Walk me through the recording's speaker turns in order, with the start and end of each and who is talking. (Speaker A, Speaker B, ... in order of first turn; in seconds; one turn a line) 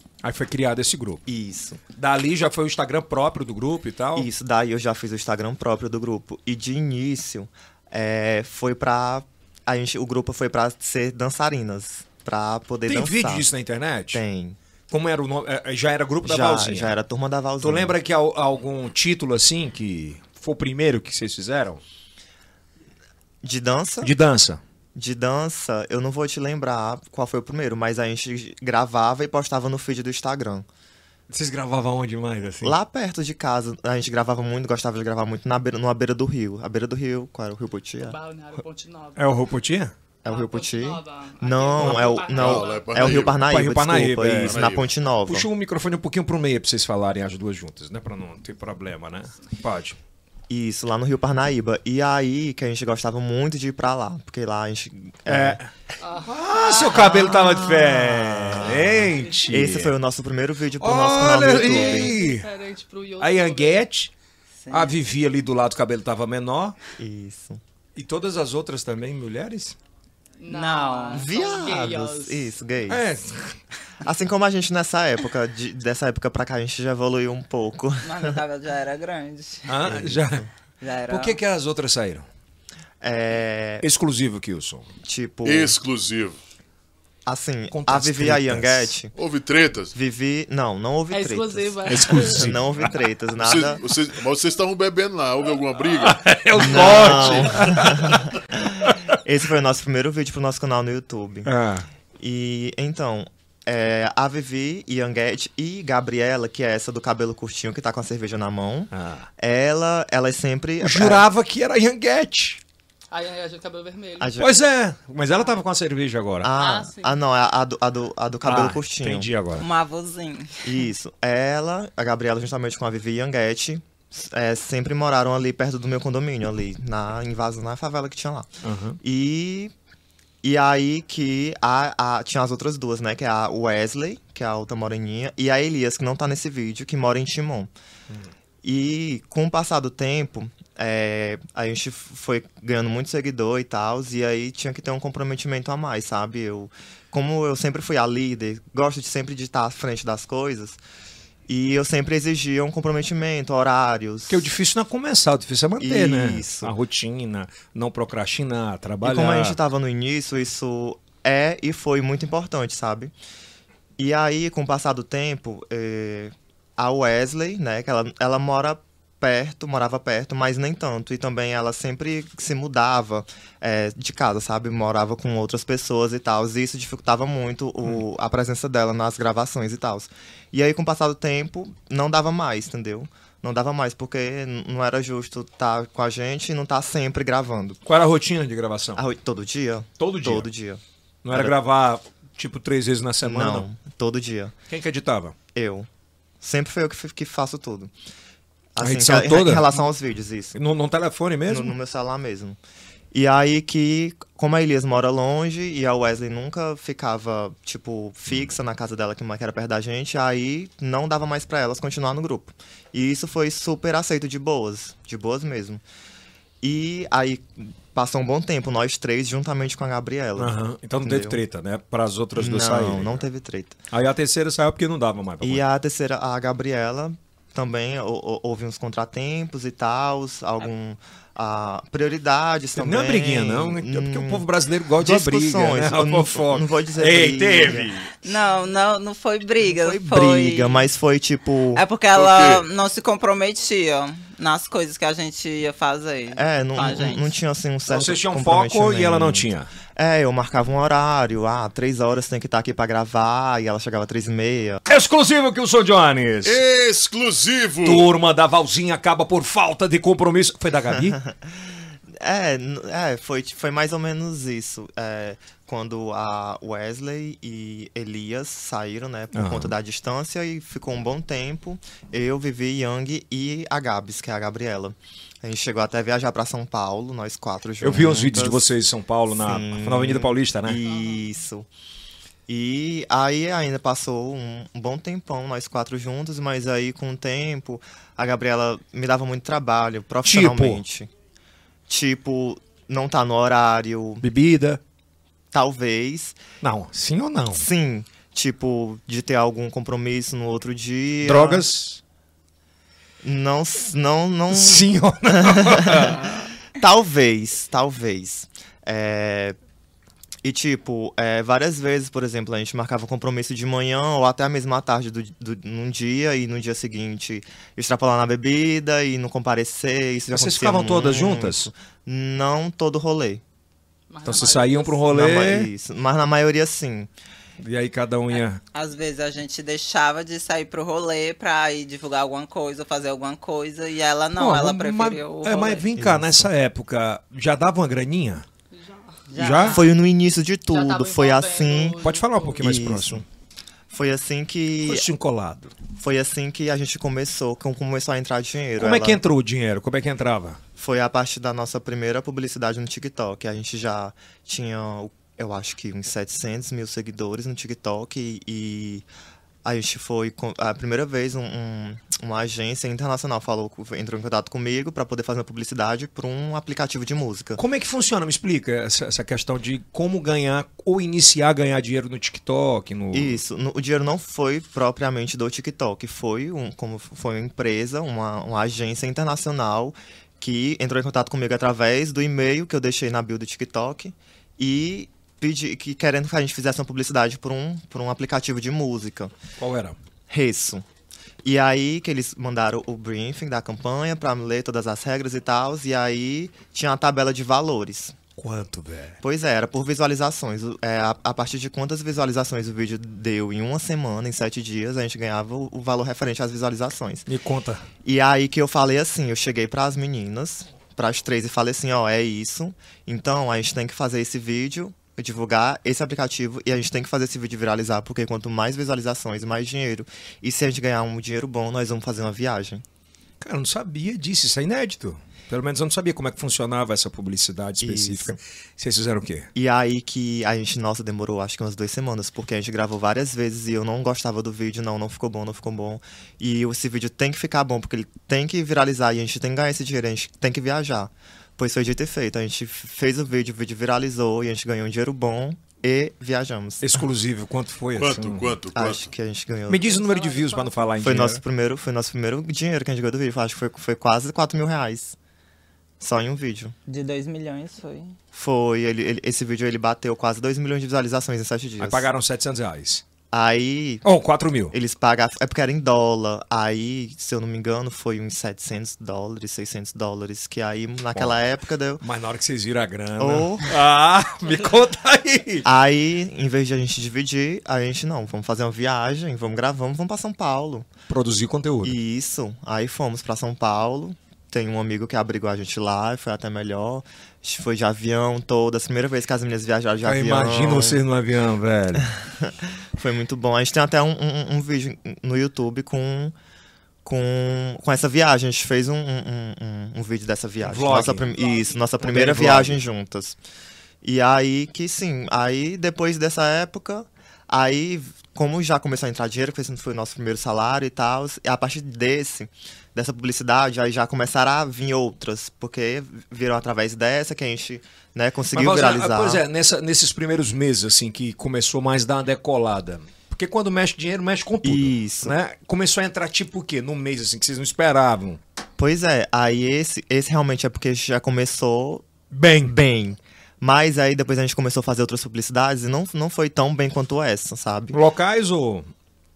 Speaker A: 0.2-1.2
Speaker B: 1.3-1.8
Speaker A: 1.9-4.3
Speaker B: 4.2-13.5
Speaker A: 12.9-14.2
Speaker B: 14.1-14.6
Speaker A: 14.9-17.0
Speaker B: 16.2-17.9
Speaker A: 17.6-21.8
Speaker B: 23.4-24.1
Speaker A: 24.0-24.6
Speaker B: 24.9-30.7
Speaker A: 31.3-32.8
Speaker B: 32.6-38.2
Speaker C: 38.0-39.3
Speaker A: 39.2-39.9
Speaker B: 40.2-45.5
Speaker C: 40.3-43.1
Speaker A: 41.8-42.1
Speaker D: 42.3-43.5
Speaker A: 43.5-44.7
Speaker D: 44.4-44.9
Speaker A: 45.3-50.0
Speaker B: 50.5-55.6
Speaker A: 55.3-55.7
Speaker C: 56.0-57.4
Speaker A: 56.2-59.9
Speaker B: 56.9-62.1
Speaker A: 60.8-62.5
Speaker C: 61.5-63.8
Speaker A: 63.2-64.1
Speaker E: 64.6-64.9
Speaker A: 64.7-66.8
Speaker B: 67.0-67.6
Speaker A: 68.0-69.8
Speaker C: 70.4-72.5
Speaker E: 70.5-71.3
Speaker B: 71.2-73.0
Speaker A: 72.9-73.6
Speaker B: 74.0-78.4
Speaker E: 78.0-79.7
Speaker A: 79.7-80.5
Speaker B: 79.8-80.5
Speaker E: 80.8-81.4
Speaker A: 81.1-82.3
Speaker B: 83.0-83.9
Speaker A: 83.8-84.9
Speaker B: 85.0-85.8
Speaker D: 85.5-86.4
Speaker B: 87.3-89.1
Speaker A: 87.7-89.0
Speaker D: 89.2-89.9
Speaker B: 89.9-93.8
Speaker C: 91.1-92.5
Speaker A: 91.9-92.6
Speaker D: 93.4-97.3
Speaker A: 96.0-99.2
Speaker B: 96.6-101.5
Speaker A: 101.5-101.9
Speaker B: 102.2-111.2
Speaker A: 108.9-109.3
Speaker A: 110.8-112.6
Speaker C: 113.1-114.4
Speaker B: 114.2-114.5
Speaker A: 114.4-116.5
Speaker B: 116.4-119.3
Speaker C: 116.6-117.2
Speaker A: 118.4-119.7
Speaker E: 119.6-120.7
Speaker B: 120.6-128.5
Speaker A: 128.6-129.0
Speaker B: 129.0-129.7
Speaker B: 130.4-137.7
Speaker B: 138.6-150.8
Speaker B: 151.5-154.5
Speaker A: 154.3-159.6
Speaker B: 155.8-156.8
Speaker B: 159.0-163.1
Speaker B: 164.0-187.8
Speaker A: 187.8-189.0
Speaker B: 189.0-190.8
Speaker A: 190.0-190.5
Speaker A: 191.2-193.7
Speaker B: 193.2-194.5
Speaker A: 194.7-195.3
Speaker B: 195.6-195.9
Speaker B: 196.4-197.9
Speaker B: 198.8-200.6
Speaker A: 198.8-199.7
Speaker A: 200.5-201.8
Speaker B: 201.5-202.6
Speaker B: 203.1-215.8
Speaker B: 216.6-221.4
Speaker A: 220.4-223.2
Speaker B: 222.4-223.8
Speaker A: 223.9-225.6
Speaker B: 225.4-234.5
Speaker A: 232.8-238.1
Speaker B: 235.0-238.1
Speaker E: 238.2-240.9
Speaker B: 239.7-241.8
Speaker E: 241.8-247.3
Speaker D: 242.1-242.7
Speaker B: 246.3-254.8
Speaker A: 247.9-249.7
Speaker A: 254.9-256.6
Speaker D: 256.4-258.1
Speaker A: 257.8-261.2
Speaker B: 260.9-278.7
Speaker A: 269.3-269.7
Speaker A: 277.8-280.8
Speaker B: 279.3-281.7
Speaker B: 282.5-291.1
Speaker A: 290.2-290.8
Speaker B: 291.9-294.2
Speaker A: 294.2-294.8
Speaker B: 295.5-296.4
Speaker A: 296.6-297.7
Speaker B: 297.5-301.6
Speaker A: 301.2-302.0
Speaker B: 303.2-309.6
Speaker A: 304.5-306.5
Speaker B: 310.4-323.4
Speaker A: 320.3-321.7
Speaker C: 324.1-325.1
Speaker A: 324.2-325.7
Speaker B: 325.1-327.1
Speaker A: 327.6-328.6
Speaker E: 328.7-335.9
Speaker A: 334.4-338.5
Speaker B: 335.9-336.5
Speaker C: 338.7-339.2
Speaker E: 339.3-339.9
Speaker A: 339.4-339.8
Speaker B: 339.6-342.0
Speaker C: 340.7-342.6
Speaker A: 342.0-343.2
Speaker B: 342.6-343.2
Speaker B: 343.9-345.1
Speaker A: 344.8-345.7
Speaker B: 345.9-349.2
Speaker A: 348.8-350.6
Speaker B: 350.8-359.1
Speaker B: 359.6-367.6
Speaker A: 367.6-373.4
Speaker B: 373.1-389.3
Speaker A: 389.6-390.0
Speaker B: 390.3-390.9
Speaker B: 391.4-398.1
Speaker A: 398.4-399.2
Speaker B: 399.2-407.3
Speaker A: 407.3-407.8
Speaker B: 408.0-422.8
Speaker A: 423.4-429.5
Speaker B: 427.8-428.4
Speaker B: 429.6-447.0
Speaker A: 446.8-448.6
Speaker D: 448.0-449.1
Speaker B: 448.7-450.0
Speaker A: 449.7-451.4
Speaker C: 449.9-450.9
Speaker B: 451.0-455.2
Speaker B: 456.0-456.8
Speaker E: 456.9-458.1
Speaker B: 458.3-462.1
Speaker A: 461.8-463.0
Speaker B: 463.3-464.0
Speaker A: 464.0-464.8
Speaker B: 464.7-472.0
Speaker A: 472.0-475.7
Speaker B: 473.2-473.7
Speaker B: 475.6-480.9
Speaker A: 481.1-482.0
Speaker B: 481.8-491.0
Speaker A: 490.0-492.1
Speaker B: 492.0-496.4
Speaker B: 497.1-503.4
Speaker A: 500.6-501.4
Speaker C: 501.3-501.9
Speaker A: 502.0-502.8
Speaker B: 504.0-519.4
Speaker A: 518.5-528.4
Speaker B: 524.6-525.4
Speaker B: 528.8-532.0
Speaker A: 532.3-532.8
Speaker B: 532.6-538.0
Speaker A: 537.9-538.9